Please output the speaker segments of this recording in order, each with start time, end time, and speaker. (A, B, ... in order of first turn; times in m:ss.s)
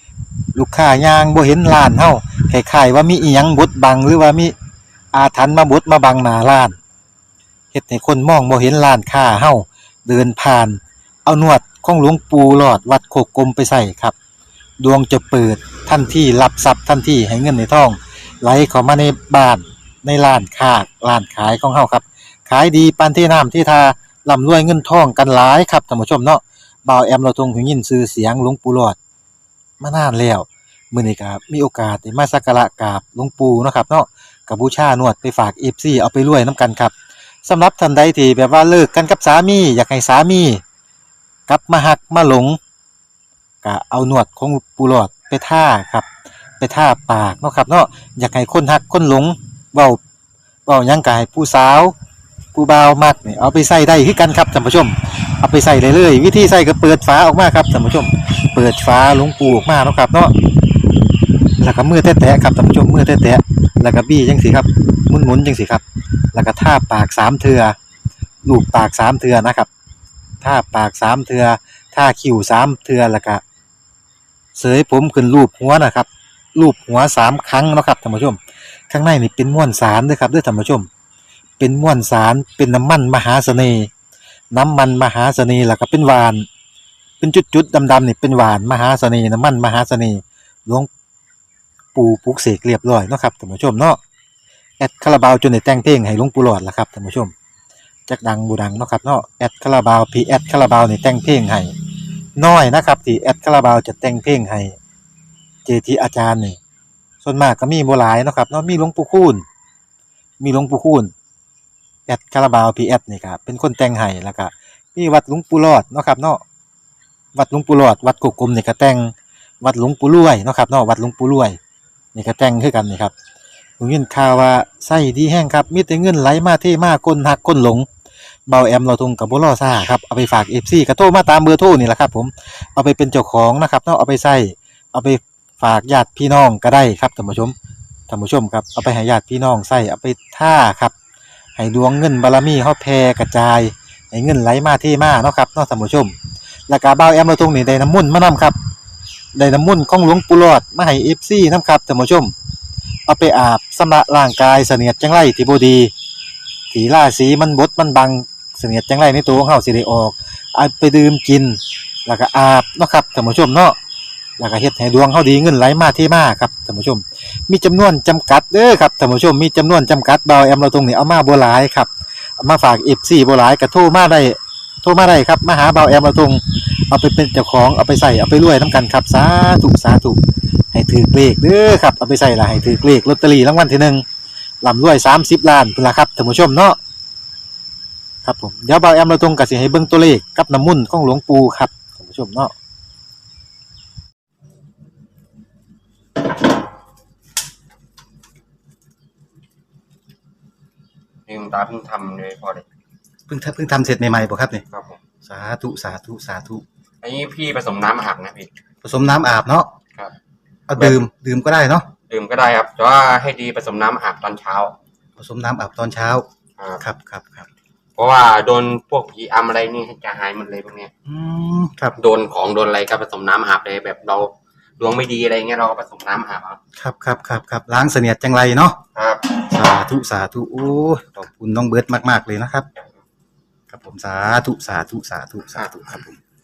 0:00.6-0:04.6 A
0:05.1-0:06.8 A
0:07.7-0:14.2 A
0:14.8-0:29.0 A
0:29.8-0:36.9 A
0:37.5-0:40.6 A
0:41.5-0:42.6 A
0:43.6-0:46.1 A
0:46.6-0:50.0 A
0:50.7-0:52.0 A
0:52.5-1:00.3 A
1:01.6-1:05.8 A
1:06.3-1:07.8 A
1:08.5-1:09.7 A
1:10.4-1:13.4 A
1:14.6-1:18.4 A
1:18.9-1:20.9 A
1:21.6-1:23.9 A
1:24.5-1:26.5 A
1:27.2-1:30.9 A
1:32.0-1:34.0 A
1:34.8-1:37.3 A
1:38.1-1:41.7 A
1:42.4-1:44.8 A
1:45.7-1:46.6 A
1:47.2-1:49.4 A
1:50.4-1:51.1 A
1:52.1-1:56.4 A
1:57.4-2:01.6 A
2:02.2-2:03.1 A
2:03.8-2:07.9 A
2:08.5-2:17.5 A
2:18.1-2:20.9 A
2:21.6-2:26.2 A
2:26.7-2:28.6 A
2:29.4-2:32.3 A
2:33.1-2:35.9 A
2:36.7-2:43.8 A
2:44.4-3:00.2 A
3:00.7-3:04.0 A
3:04.6-3:06.8 A
3:08.2-3:12.5 A
3:21.3-3:22.6 B
3:23.3-3:24.6 A
3:24.7-3:25.0 B
3:25.2-3:26.6 A
3:27.0-3:28.5 B
3:28.8-3:29.7 A
3:30.7-3:31.9 A
3:32.1-3:34.8 B
3:35.2-3:36.2 A
3:36.8-3:37.5 A
3:38.0-3:40.9 B
3:41.1-3:42.0 A
3:42.0-3:46.6 B
3:46.8-3:48.8 A
3:49.0-3:49.4 B
3:49.4-3:52.7 A
3:53.7-3:56.2 A
3:55.6-3:55.9 B